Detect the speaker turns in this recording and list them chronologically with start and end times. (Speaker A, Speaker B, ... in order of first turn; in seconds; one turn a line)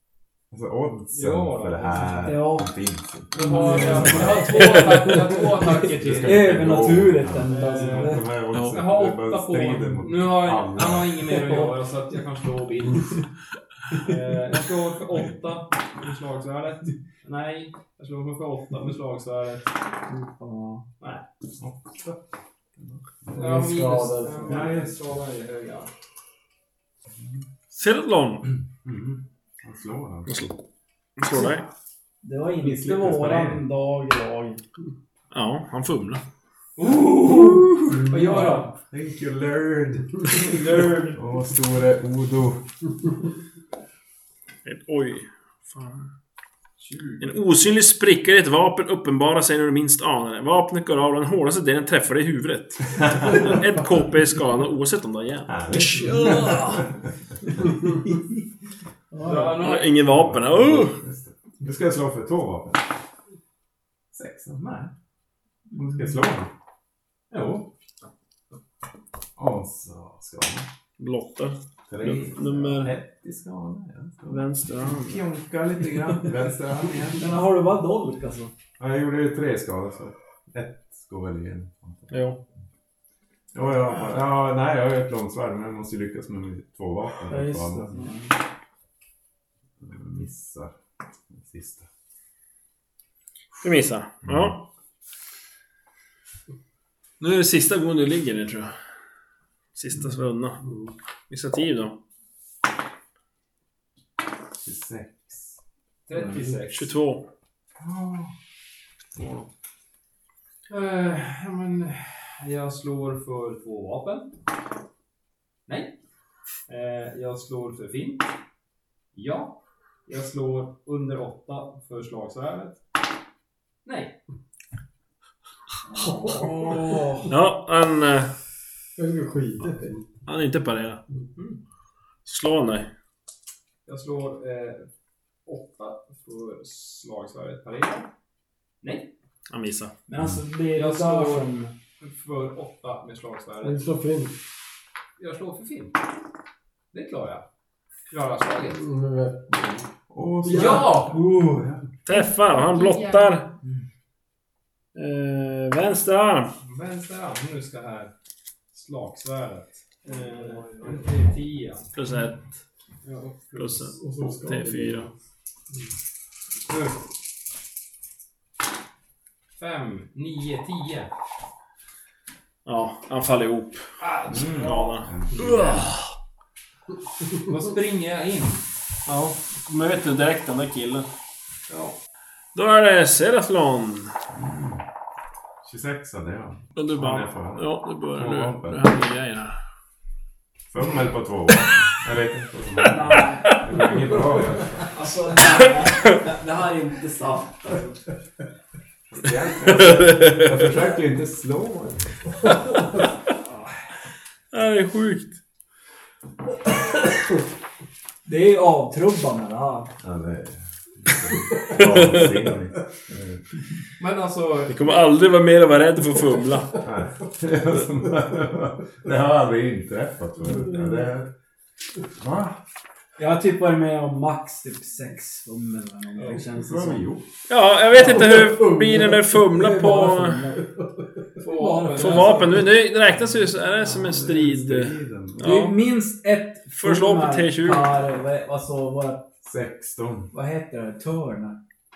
Speaker A: 0.5-4.6
Speaker B: 1.1-2.1
Speaker C: 2.0-2.7
Speaker C: 3.3-4.4
Speaker B: 3.3-6.5
Speaker D: 3.4-4.4
Speaker A: 5.9-11.2
Speaker C: 6.2-8.2
Speaker B: 7.4-13.2
Speaker E: 8.5-8.8
Speaker C: 11.3-11.7
Speaker B: 13.9-19.7
Speaker C: 20.1-20.8
Speaker A: 21.6-22.2
Speaker A: 22.8-23.0
Speaker D: 23.3-24.8
Speaker B: 23.3-25.9
Speaker A: 24.5-24.8
Speaker E: 27.7-28.5
Speaker A: 28.8-30.5
Speaker E: 30.2-30.6
Speaker E: 31.2-31.6
Speaker C: 32.2-34.6
Speaker A: 32.6-33.6
Speaker E: 35.3-36.2
Speaker B: 36.8-38.7
Speaker C: 37.9-38.7
Speaker A: 38.9-40.4
Speaker B: 40.3-41.2
Speaker A: 41.1-42.7
Speaker E: 44.6-46.1
Speaker B: 46.8-47.2
Speaker E: 47.2-56.8
Speaker A: 53.0-53.5
Speaker A: 55.5-57.0
Speaker C: 59.1-59.6
Speaker B: 59.2-59.9
Speaker E: 59.5-61.0
Speaker A: 60.0-62.9
Speaker A: 64.1-64.9
Speaker A: 65.8-66.5
Speaker A: 67.3-67.7
Speaker A: 69.3-70.7
Speaker E: 71.0-73.0
Speaker A: 71.9-77.4
Speaker E: 74.2-75.2
Speaker C: 77.1-78.5
Speaker A: 78.8-82.1
Speaker E: 82.1-82.4
Speaker A: 83.5-88.1
Speaker C: 87.3-88.3
Speaker A: 89.8-90.7
Speaker A: 91.3-91.9
Speaker E: 93.6-94.7
Speaker A: 94.2-94.5
Speaker E: 97.2-98.7
Speaker E: 99.7-100.6
Speaker E: 101.3-102.0
Speaker A: 104.6-105.6
Speaker B: 106.1-106.9
Speaker D: 106.3-106.6
Speaker E: 106.7-107.3
Speaker A: 107.8-108.3
Speaker E: 109.2-109.5
Speaker B: 110.7-114.4
Speaker B: 115.7-116.0
Speaker B: 116.7-118.3
Speaker B: 119.1-122.8
Speaker B: 123.8-124.2
Speaker C: 125.9-127.0
Speaker D: 126.3-127.2
Speaker E: 127.2-128.3
Speaker D: 128.9-130.1
Speaker E: 130.2-131.0
Speaker B: 131.3-131.6
Speaker E: 132.2-132.9
Speaker B: 133.8-134.9
Speaker B: 135.4-138.1
Speaker B: 138.8-139.1
Speaker E: 139.5-139.9
Speaker C: 140.1-141.7
Speaker B: 140.7-143.8
Speaker D: 143.6-144.3
Speaker B: 145.2-146.0
Speaker B: 146.9-147.4
Speaker B: 148.1-148.8
Speaker D: 148.7-149.9
Speaker A: 150.1-151.9
Speaker D: 150.4-150.9
Speaker B: 150.5-151.2
Speaker C: 150.6-151.7
Speaker E: 152.0-153.6
Speaker B: 152.7-153.3
Speaker E: 154.9-156.5
Speaker B: 156.6-158.1
Speaker B: 158.7-161.9
Speaker D: 160.1-160.9
Speaker E: 161.9-162.5
Speaker B: 163.0-163.9
Speaker E: 163.6-165.1
Speaker D: 164.0-165.1
Speaker B: 166.7-167.0
Speaker B: 169.6-171.1
Speaker E: 172.6-173.8
Speaker B: 174.0-175.0
Speaker A: 174.3-175.8
Speaker E: 174.5-176.1
Speaker B: 177.4-178.6
Speaker E: 179.1-181.1
Speaker B: 181.7-181.9
Speaker E: 182.5-184.1
Speaker A: 184.3-184.8
Speaker A: 185.6-189.0
Speaker E: 186.8-189.5
Speaker A: 190.7-195.1
Speaker C: 192.9-194.1
Speaker E: 193.4-193.7
Speaker C: 194.9-198.0
Speaker A: 199.1-202.1
Speaker E: 199.8-200.5
Speaker E: 202.4-202.8
Speaker E: 204.5-205.4
Speaker C: 208.2-209.9
Speaker A: 210.0-213.4
Speaker E: 211.7-212.3
Speaker B: 214.0-214.9
Speaker E: 214.7-216.8
Speaker A: 216.8-221.3
Speaker A: 222.2-222.6
Speaker C: 223.2-227.1
Speaker A: 226.3-227.3
Speaker E: 227.5-230.5
Speaker D: 228.0-229.6
Speaker C: 229.5-230.7
Speaker D: 230.6-231.2
Speaker B: 231.4-232.7
Speaker C: 231.4-232.5
Speaker E: 231.8-235.8
Speaker A: 233.7-235.6
Speaker C: 235.4-239.3
Speaker E: 236.7-237.9
Speaker A: 239.4-240.3
Speaker C: 240.3-241.6